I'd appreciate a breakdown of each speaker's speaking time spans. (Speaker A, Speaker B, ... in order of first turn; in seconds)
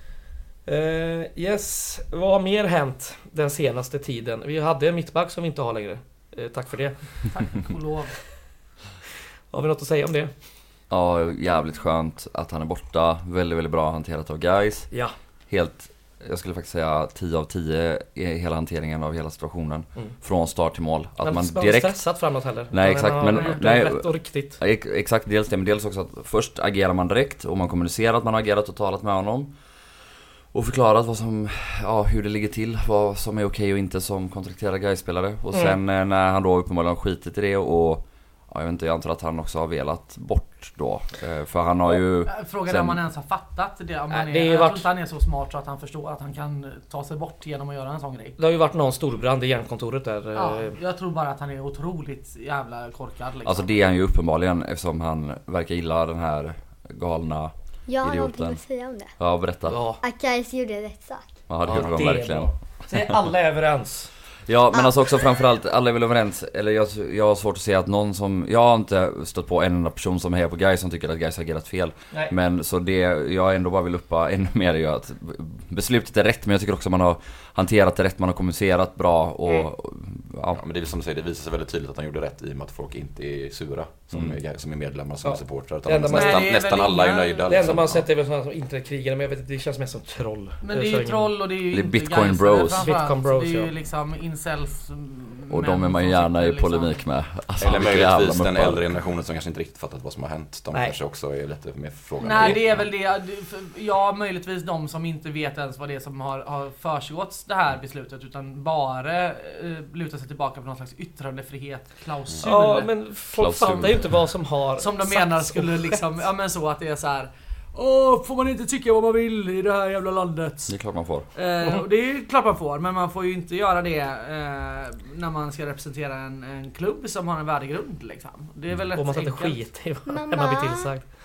Speaker A: 0.7-7.4, 9.5-10.3, 21.2-24.6, 44.1-44.9, 48.4-50.8, 59.7-60.0, 61.6-64.1, 85.2-86.9, 87.4-91.3, 92.8-93.7, 112.4-116.1, 128.9-131.0
Speaker B: 7.3-8.3, 42.2-48.4, 50.3-53.7, 86.1-87.8, 90.6-97.0, 102.2-113.0, 114.8-129.7
Speaker C: 10.9-29.6, 30.5-43.0, 53.4-58.6, 59.1-59.8, 61.5-63.0, 64.5-80.6, 91.7-92.9, 95.5-98.8, 113.3-114.3, 120.7-121.3
Speaker D: 57.9-59.2, 60.0-61.4, 130.1-130.9
Speaker E: 80.5-88.0, 97.6-102.8